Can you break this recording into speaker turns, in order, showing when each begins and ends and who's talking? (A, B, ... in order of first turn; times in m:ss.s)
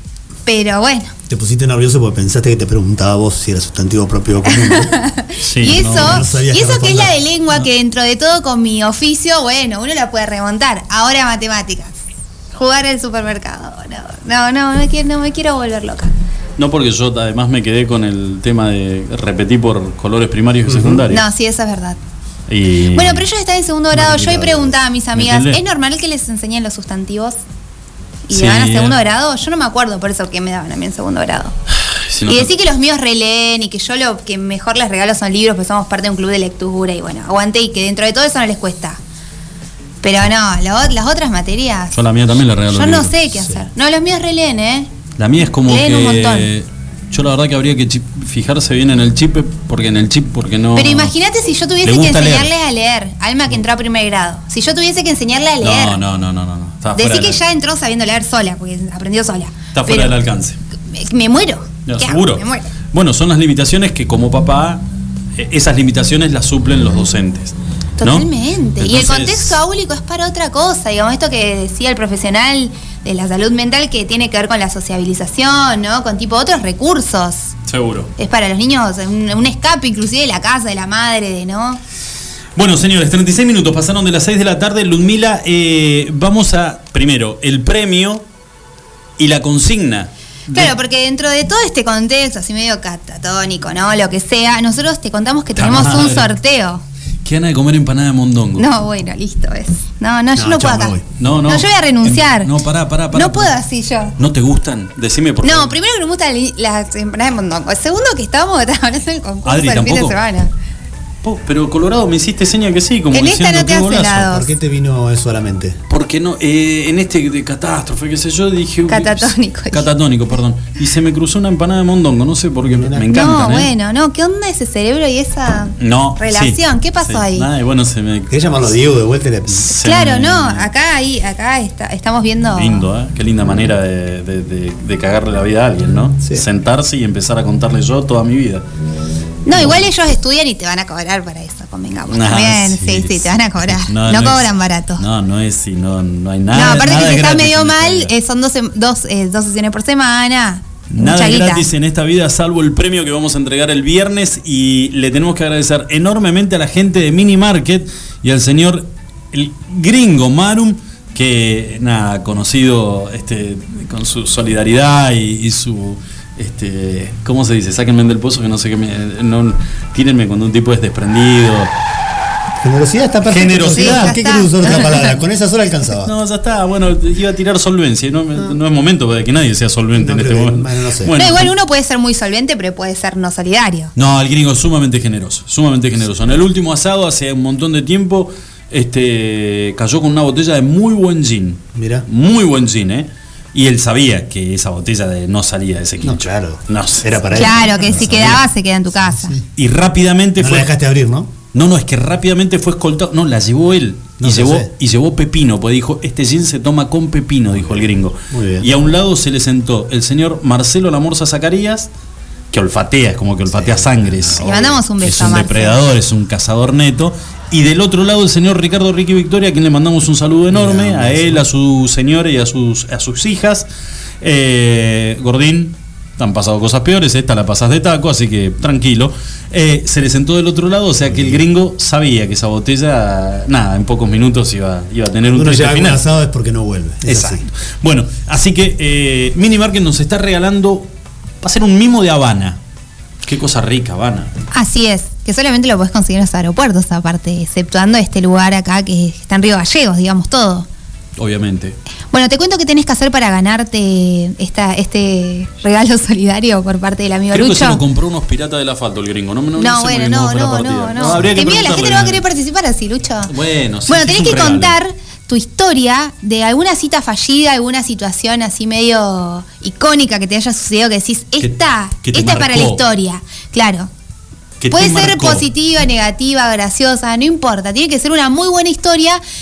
0:00.4-0:01.1 A
0:01.3-0:04.9 B
0:04.4-0:12.0 A
0:05.4-0:06.3 C
0:05.7-0:07.2 B
0:12.5-0:16.1 A
0:16.6-0:21.2 C
0:20.7-0:21.0 B
0:21.1-0:22.0 A
0:22.5-0:23.2 C
0:22.9-0:27.4 A
0:23.9-0:24.5 C
0:24.3-0:24.6 B
0:25.1-0:25.6 C
0:28.3-0:31.5 A
0:28.3-0:29.0 C
0:31.9-0:32.5 C
0:32.3-0:39.0 A
0:40.0-0:42.0 A
0:41.9-0:43.2 C
0:42.7-0:44.9 A
0:45.2-0:51.1 C
0:45.7-0:46.5 A
0:50.7-0:56.0 A
0:51.8-0:52.5 C
0:55.6-0:57.4 C
0:56.9-1:00.2 A
0:59.7-1:00.6 C
1:00.9-1:02.7 A
1:01.8-1:04.8 C
1:05.4-1:08.3 C
1:08.0-1:17.5 A
1:08.8-1:09.6 C
1:17.7-1:18.1 C
1:18.2-1:21.8 A
1:22.6-1:28.2 C
1:29.2-1:30.7 C
1:30.5-1:36.8 A
1:35.6-1:36.3 C
1:37.2-1:38.7 C
1:38.6-1:42.5 A
1:40.3-1:41.0 B
1:41.2-1:43.6 C
1:43.1-1:44.2 A
1:44.2-1:45.7 C
1:45.4-1:50.5 A
1:49.4-1:50.2 C
1:51.2-1:54.3 C
1:53.1-1:54.5 A
1:54.2-1:55.8 B
1:55.9-2:03.7 C
1:58.9-1:59.9 A
2:02.6-2:03.1 B
2:03.1-2:07.5 A
2:05.8-2:08.7 C
2:08.3-2:09.7 B
2:09.5-2:10.7 C
2:09.8-2:12.8 A
2:12.6-2:18.6 C
2:19.4-2:25.0 A
2:19.5-2:19.8 C
2:22.1-2:28.1 C
2:26.5-2:31.7 A
2:30.9-2:51.7 C
2:52.6-2:56.1 B
2:53.2-2:54.9 C
2:53.7-2:55.1 A
2:56.0-3:01.5 C
2:59.9-3:01.1 B
3:01.1-3:03.9 A
3:04.0-3:18.4 C
3:11.7-3:12.0 B
3:16.0-3:18.4 B
3:17.3-3:19.4 A
3:19.0-3:19.4 B
3:19.6-3:20.7 C
3:20.4-3:21.3 B
3:21.5-3:31.9 C
3:24.2-3:24.7 B
3:27.5-3:28.7 B
3:32.5-3:43.7 C
3:33.5-3:34.6 B
3:34.4-3:35.8 A
3:40.5-3:41.4 B
3:44.2-3:56.0 C
3:51.1-3:51.4 B
3:55.2-3:57.4 B
3:57.0-4:00.9 C
4:01.4-4:02.6 C
4:03.2-4:04.3 C
4:04.5-4:10.7 A
4:11.2-4:11.8 C
4:12.1-4:17.8 A
4:17.3-4:22.2 C
4:19.6-4:23.3 A
4:23.2-4:24.8 C
4:23.9-4:33.9 A
4:31.4-4:32.8 C
4:34.6-4:35.4 C
4:34.7-4:39.2 A